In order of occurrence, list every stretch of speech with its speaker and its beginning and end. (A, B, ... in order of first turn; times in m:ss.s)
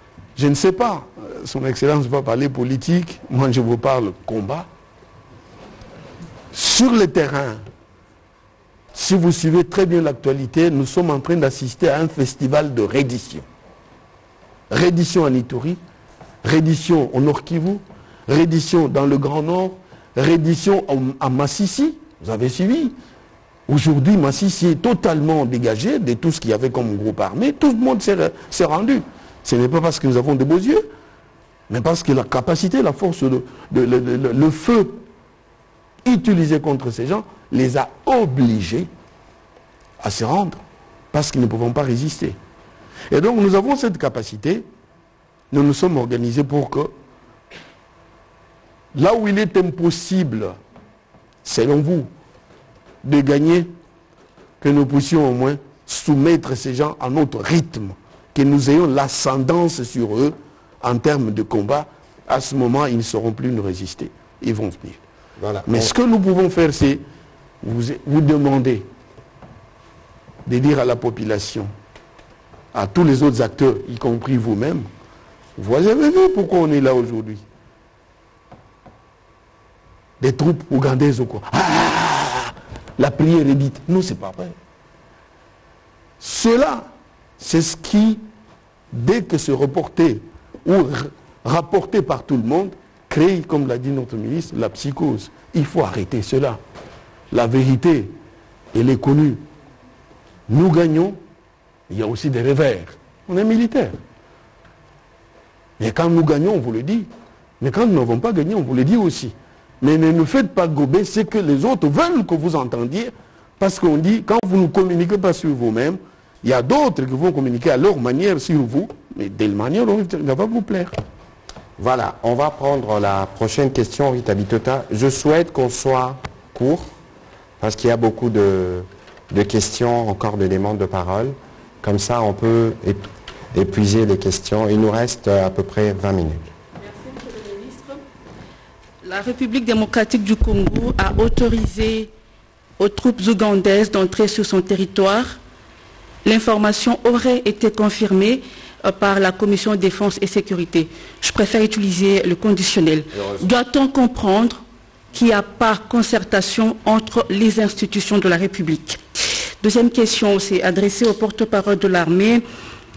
0:00.4-0:04.7 A
0:06.5-0:07.6 A
0:08.9-0:13.4 A
0:14.7-0:15.8 A
0:16.4-0:22.9 A
0:23.7-0:30.8 A
0:31.7-0:35.0 A
0:36.0-0:38.9 A
0:40.0-0:40.6 A
0:41.1-0:42.4 A
0:43.1-0:44.6 A
0:45.5-0:46.9 A
0:48.9-0:50.6 A
0:51.4-0:52.1 A
0:53.0-0:53.7 A
0:54.6-1:05.0 A
1:05.4-1:05.9 B
1:05.6-1:07.0 A
1:07.6-1:08.9 A
1:10.4-1:11.7 A
1:12.7-1:14.9 A
1:15.6-1:17.4 A
1:20.2-1:24.6 A
1:26.2-1:26.9 A
1:27.4-1:28.2 A
1:28.9-1:36.6 A
1:37.3-1:38.1 A
1:38.7-1:39.4 A
1:40.5-1:41.2 A
1:41.9-1:44.0 A
1:45.8-1:47.1 A
1:47.6-2:00.9 A
2:01.8-2:06.9 B
2:07.6-2:16.5 B
2:16.8-2:18.0 C
2:19.0-2:22.1 C
2:22.8-2:25.4 C
2:26.2-2:39.0 C
2:33.2-2:33.4 B
2:39.6-2:42.4 C